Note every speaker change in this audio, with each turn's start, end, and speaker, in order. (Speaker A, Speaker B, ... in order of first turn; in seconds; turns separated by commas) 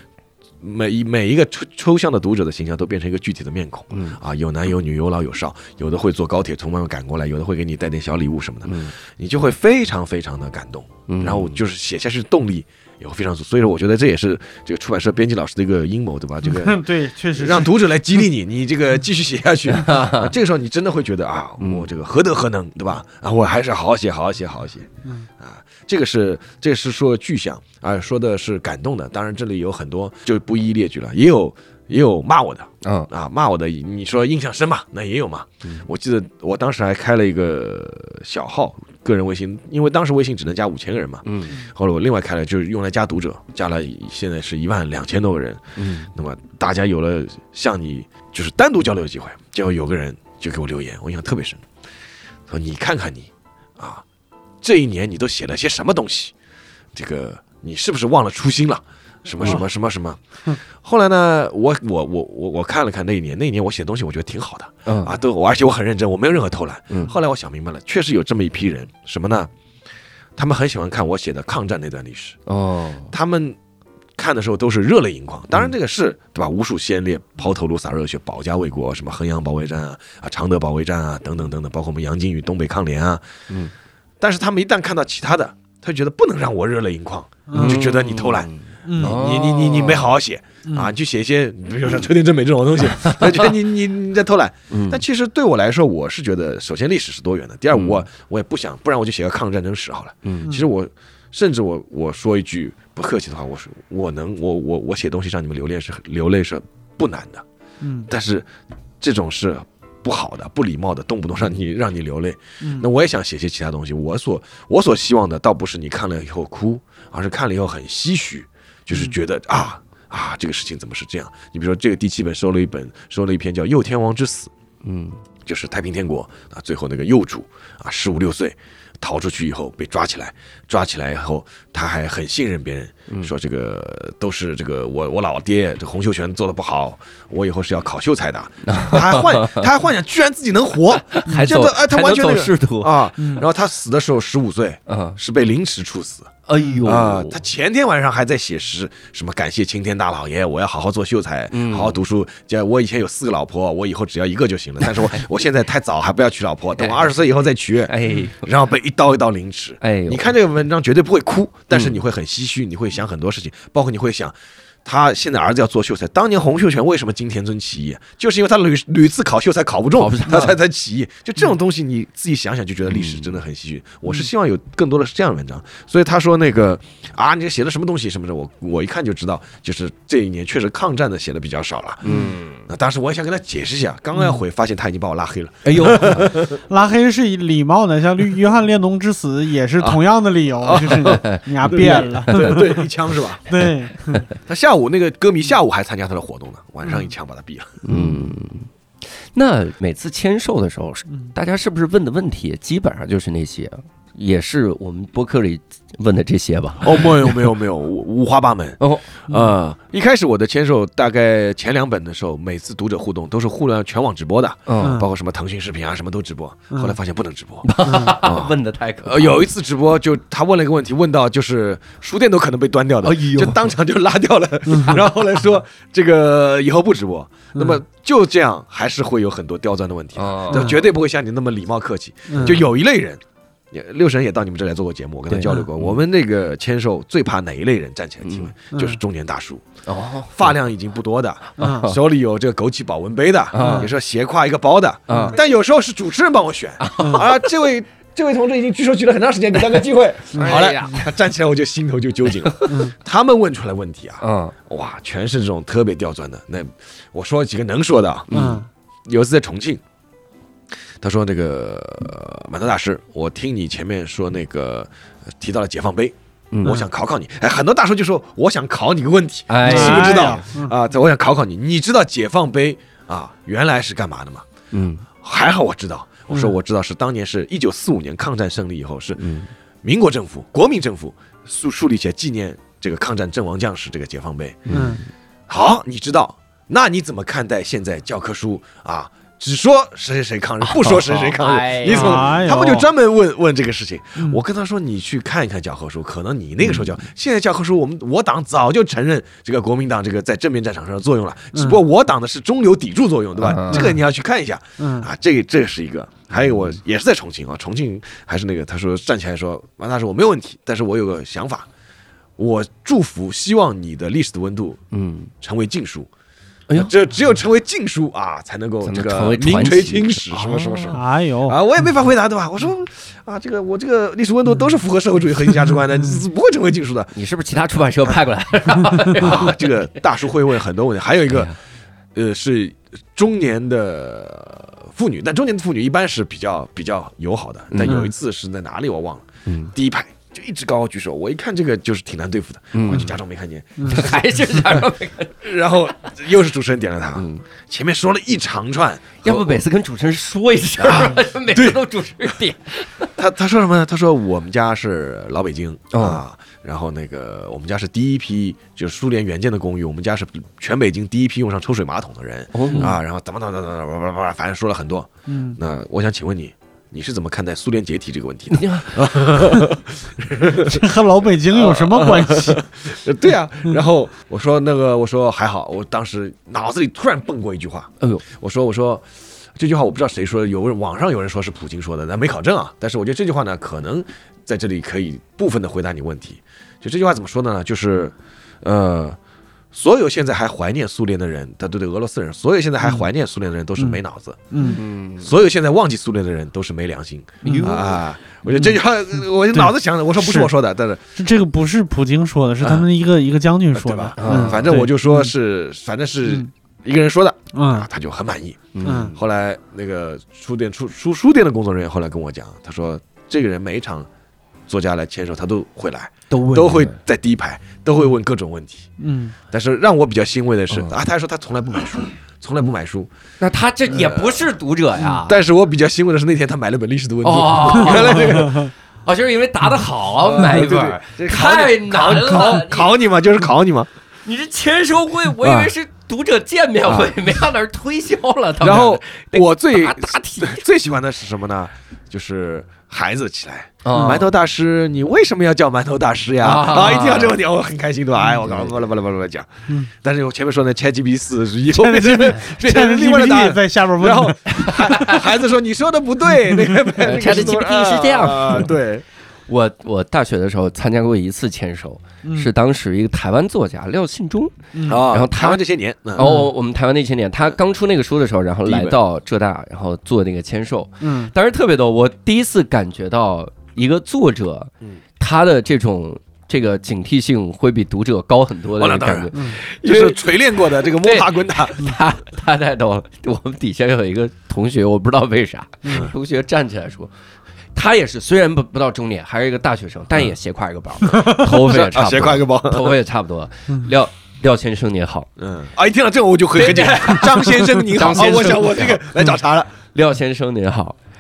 Speaker A: 0.6-51.7, Speaker B: 3.9-4.2, Speaker B: 8.7-8.9, Speaker B: 11.1-11.6, Speaker C: 16.4-17.8, Speaker B: 19.7-20.3, Speaker B: 21.6-21.9, Speaker B: 32.8-33.1, Speaker B: 41.3-41.5, Speaker B: 45.8-46.1, Speaker A: 52.5-54.0, Speaker A: 54.6-56.3, Speaker A: 56.9-69.5, Speaker B: 64.9-65.2, Speaker A: 70.4-72.4, Speaker B: 72.5-73.1, Speaker A: 73.1-73.6, Speaker A: 74.2-83.2, Speaker A: 84.2-107.5, Speaker C: 87.5-87.9, Speaker B: 87.5-90.1, Speaker C: 88.8-89.2, Speaker C: 90.7-90.9, Speaker B: 93.0-93.5, Speaker B: 94.7-95.0, Speaker B: 97.7-98.0, Speaker C: 107.8-108.1, Speaker A: 108.1-108.5, Speaker A: 109.0-124.5, Speaker C: 112.6-112.9, Speaker B: 124.8-125.2, Speaker A: 125.5-182.1, Speaker B: 138.6-139.7, Speaker B: 141.1-143.1, Speaker C: 143.2-143.4, Speaker B: 144.9-145.2, Speaker B: 146.5-147.4, Speaker B: 151.5-152.0, Speaker B: 156.8-157.1, Speaker B: 157.9-158.5, Speaker B: 159.8-160.3, Speaker B: 161.7-162.0, Speaker B: 170.0-170.6, Speaker B: 172.9-173.3, Speaker B: 182.0-182.7, Speaker A: 182.7-186.6, Speaker C: 184.1-184.4, Speaker B: 185.7-186.3, Speaker C: 186.5-192.9, Speaker A: 190.6-193.4, Speaker B: 191.0-192.6, Speaker C: 193.5-194.3, Speaker A: 194.4-197.8, Speaker C: 196.8-197.1, Speaker B: 197.8-198.7, Speaker B: 199.3-207.4, Speaker A: 206.8-239.7, Speaker B: 208.8-209.2, Speaker B: 214.7-215.0, Speaker C: 214.8-215.1, Speaker C: 216.7-217.0, Speaker B: 217.6-219.5, Speaker C: 217.8-218.2, Speaker B: 223.0-223.7, Speaker C: 224.7-225.0, Speaker C: 227.6-227.8, Speaker B: 230.2-230.8, Speaker C: 230.5-230.8, Speaker C: 232.3-232.7, Speaker B: 235.3-236.0, Speaker B: 238.2-238.5, Speaker C: 238.7-239.0, Speaker B: 239.9-240.5, Speaker A: 240.3-258.4, Speaker C: 241.6-241.9, Speaker B: 241.6-242.0, Speaker B: 243.5-243.9, Speaker C: 243.6-243.9, Speaker B: 245.1-245.4, Speaker C: 245.1-245.3, Speaker B: 246.8-247.4, Speaker C: 247.0-247.3, Speaker C: 250.3-250.6, Speaker B: 250.3-251.1, Speaker C: 252.7-252.9, Speaker B: 254.2-254.5, Speaker B: 258.3-258.6, Speaker C: 258.3-258.7, Speaker A: 259.1-259.8, Speaker A: 261.0-274.5, Speaker B: 269.5-270.4, Speaker C: 269.6-270.8, Speaker B: 274.7-275.1, Speaker A: 275.2-279.2, Speaker B: 279.2-279.5, Speaker A: 279.8-284.7, Speaker B: 284.7-285.1, Speaker C: 284.7-285.0, Speaker A: 285.5-311.7, Speaker B: 290.6-292.5, Speaker C: 291.9-292.9, Speaker B: 296.6-296.9, Speaker C: 301.5-301.8, Speaker B: 303.4-303.9, Speaker C: 303.7-304.0, Speaker C: 304.8-305.1, Speaker A: 312.4-314.8, Speaker B: 314.9-315.3, Speaker A: 315.4-316.1, Speaker A: 316.7-327.2, Speaker B: 318.8-321.0, Speaker C: 320.9-321.6, Speaker B: 327.1-329.7, Speaker A: 329.1-331.5, Speaker B: 331.3-331.6, Speaker A: 332.1-344.9, Speaker B: 337.7-338.0, Speaker C: 337.9-338.1, Speaker B: 339.5-339.7, Speaker B: 342.7-343.1, Speaker C: 343.8-344.1, Speaker B: 343.9-345.4, Speaker A: 345.4-349.6, Speaker B: 347.2-347.4, Speaker B: 349.2-353.1, Speaker A: 350.8-351.8, Speaker A: 353.2-370.9, Speaker B: 355.9-356.2, Speaker B: 362.5-362.9, Speaker C: 365.3-365.6, Speaker B: 368.5-369.1, Speaker C: 370.6-372.6, Speaker A: 371.5-389.2, Speaker A: 389.7-401.0, Speaker C: 394.5-394.8, Speaker B: 394.6-395.3, Speaker C: 397.4-397.8, Speaker B: 397.4-398.0, Speaker C: 398.5-398.8, Speaker C: 399.5-400.5, Speaker C: 401.2-405.3, Speaker A: 402.6-402.9, Speaker A: 403.7-414.1, Speaker B: 404.2-404.7, Speaker C: 406.2-406.5, Speaker C: 407.5-407.9, Speaker B: 408.7-409.2, Speaker C: 408.8-409.1, Speaker A: 414.7-418.9, Speaker B: 416.3-417.0, Speaker C: 419.0-419.4, Speaker A: 419.5-423.1, Speaker B: 423.4-425.4, Speaker A: 423.9-428.7, Speaker B: 427.2-432.9, Speaker C: 428.2-428.7, Speaker A: 430.2-433.9, Speaker B: 434.2-440.6, Speaker A: 435.4-435.7, Speaker A: 436.9-437.2, Speaker A: 438.6-459.1, Speaker B: 443.8-444.2, Speaker B: 446.4-447.4, Speaker B: 448.4-448.7, Speaker C: 451.7-454.5, Speaker B: 454.5-455.2, Speaker B: 456.9-458.7, Speaker B: 459.5-465.6, Speaker C: 462.2-462.5, Speaker C: 464.7-465.0, Speaker A: 464.9-466.4, Speaker B: 466.1-480.2, Speaker A: 468.6-469.0, Speaker C: 471.0-471.3, Speaker A: 478.8-482.0, Speaker C: 479.3-479.6, Speaker B: 481.0-487.1, Speaker C: 485.9-486.1, Speaker B: 487.8-495.3, Speaker A: 491.1-493.0, Speaker A: 495.4-499.7, Speaker B: 496.6-499.1, Speaker B: 499.9-501.0